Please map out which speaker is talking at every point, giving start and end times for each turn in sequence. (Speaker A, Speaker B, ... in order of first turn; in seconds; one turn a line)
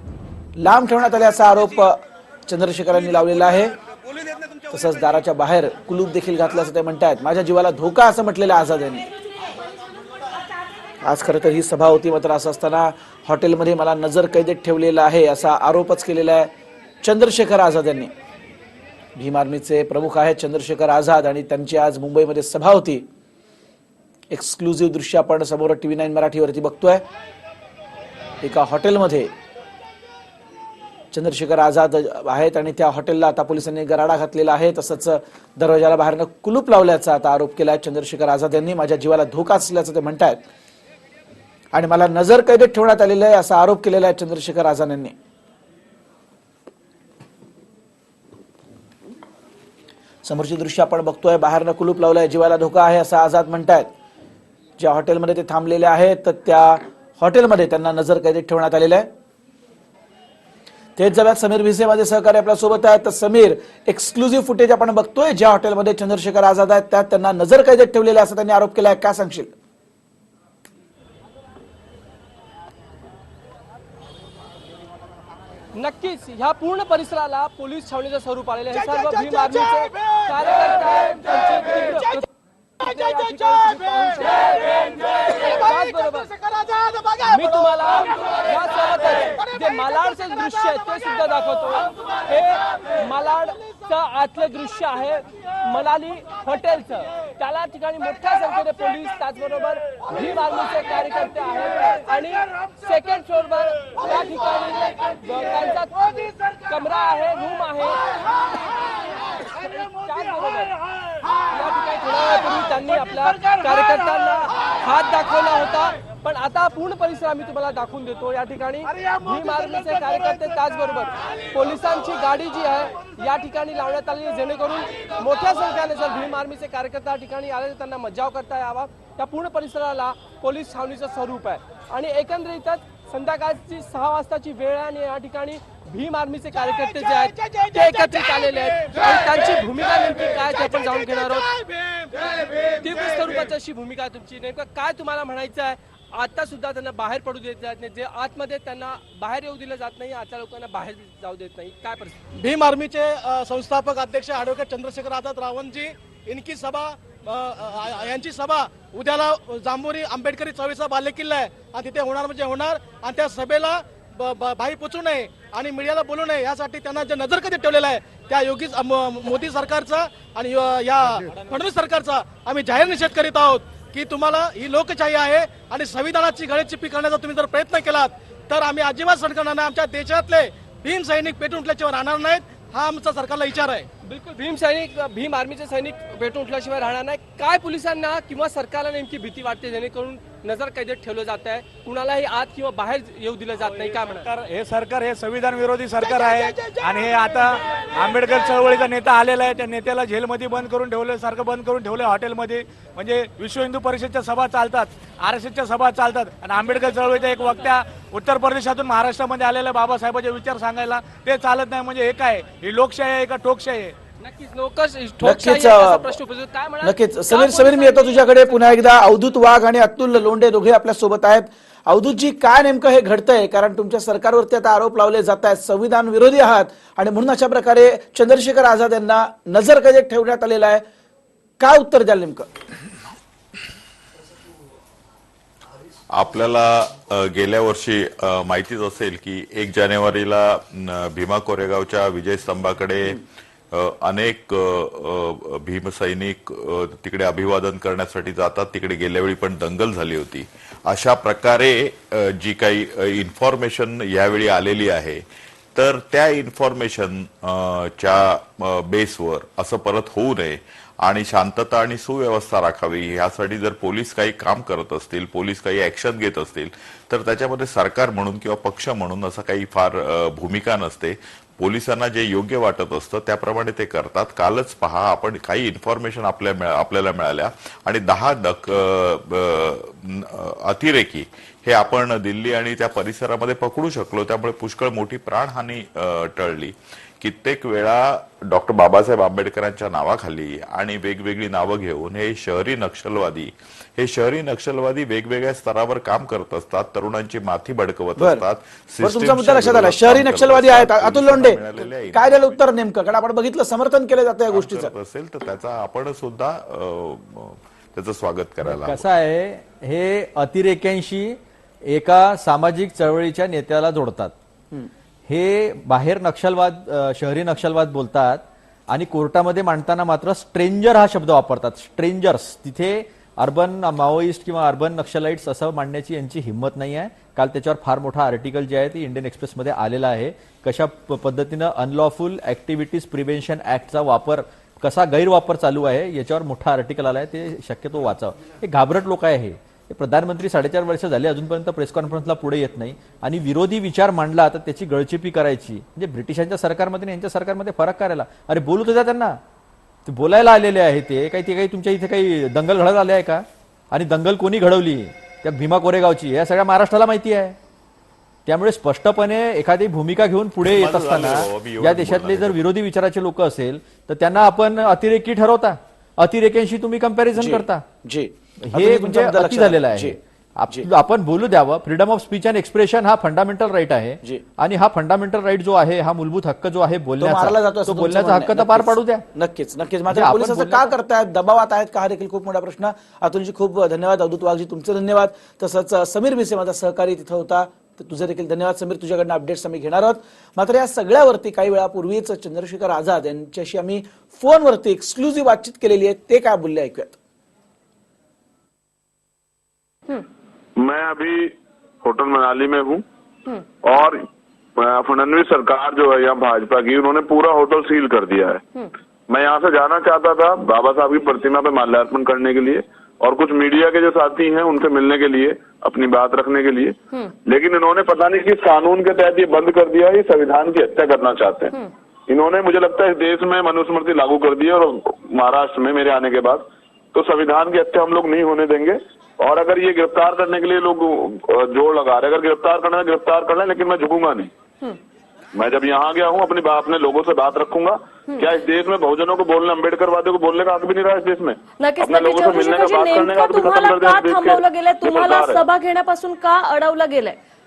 Speaker A: 0.6-3.7
Speaker A: 4.7-9.1
Speaker A: 11.0-16.5
Speaker A: 17.0-18.1
Speaker A: 19.2-23.1
Speaker A: 24.3-27.0
Speaker A: 28.4-29.3
Speaker A: 31.1-40.4
Speaker A: 41.7-45.1
Speaker A: 50.2-53.9
Speaker A: 54.8-59.1
Speaker A: 61.0-69.5
Speaker B: 75.7-82.3
Speaker B: 82.8-86.4
Speaker B: 87.2-141.6
Speaker B: 142.1-152.2
Speaker C: 152.4-183.9
Speaker B: 184.1-194.3
Speaker D: 194.2-214.0
Speaker B: 214.2-219.0
Speaker A: 215.2-216.2
Speaker A: 216.8-230.8
Speaker A: 231.6-232.5
Speaker E: 236.1-243.2
Speaker E: 243.7-255.2
Speaker E: 255.8-302.6
Speaker A: 298.2-298.4
Speaker A: 299.0-304.9
Speaker E: 304.5-309.0
Speaker F: 308.6-314.4
Speaker F: 315.3-349.4
Speaker F: 350.1-357.6
Speaker F: 358.5-367.9
Speaker E: 360.6-362.6
Speaker A: 367.4-370.2
Speaker F: 368.6-379.2
Speaker A: 377.2-397.2
Speaker F: 380.1-380.9
Speaker G: 400.8-401.5
Speaker G: 402.0-403.0
Speaker G: 403.8-404.2
Speaker G: 404.8-421.8
Speaker G: 422.3-434.5
Speaker G: 435.5-445.6
Speaker H: 441.8-447.4